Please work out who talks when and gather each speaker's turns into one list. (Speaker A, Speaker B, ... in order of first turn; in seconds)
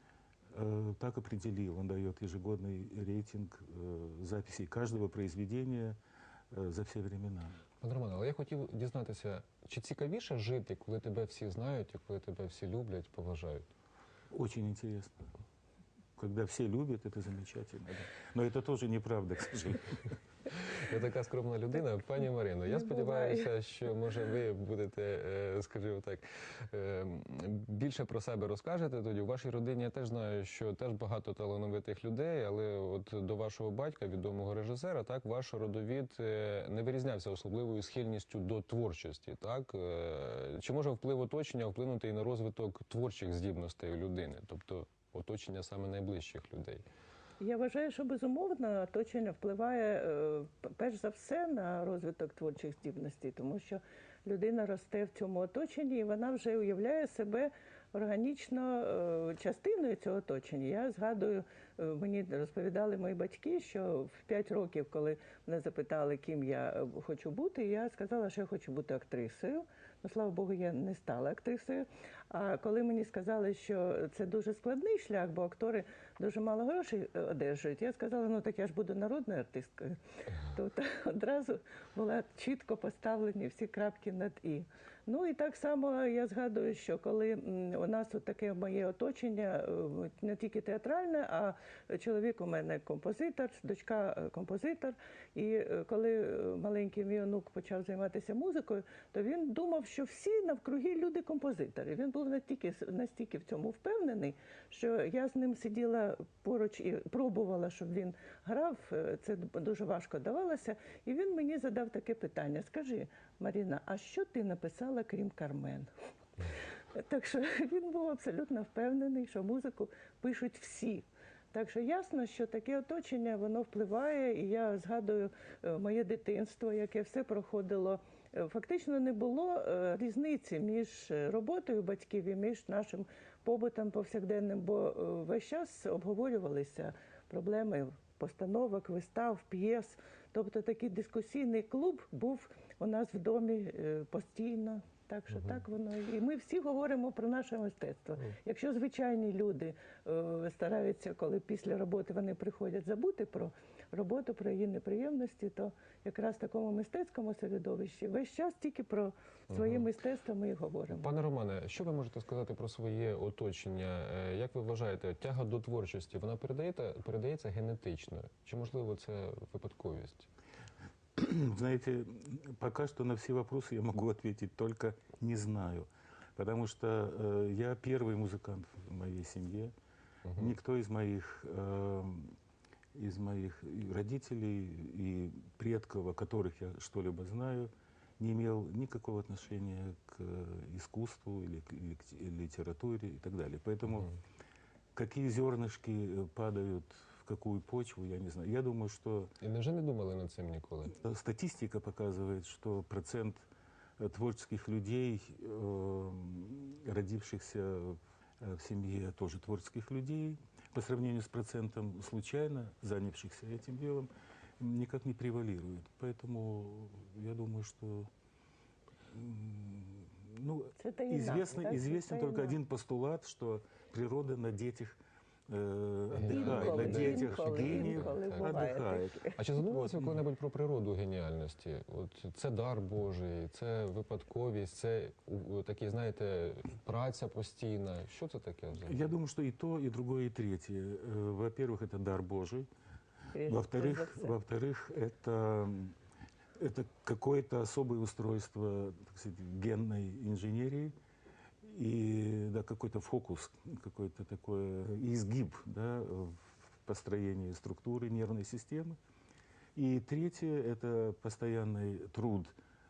Speaker A: 0.5-6.0, 6.5-7.6, 14.3-15.1, 16.2-20.0, 171.2-179.7, 180.4-182.3, 182.9-194.1, 194.9-199.3, 201.0-203.4, 204.0-218.1, 219.1-230.2, 238.8-242.7, 243.4-245.9, 246.6-250.9, 251.6-259.0, 259.7-262.6
Speaker B: 7.8-13.7, 20.5-46.8, 159.5-159.9, 160.9-170.3, 180.3-180.5, 199.4-200.9, 226.1-228.7, 229.4-239.1
Speaker C: 22.7-23.5, 47.4-115.9, 116.9-161.1, 220.8-222.6, 226.3-229.4, 243.3-244.3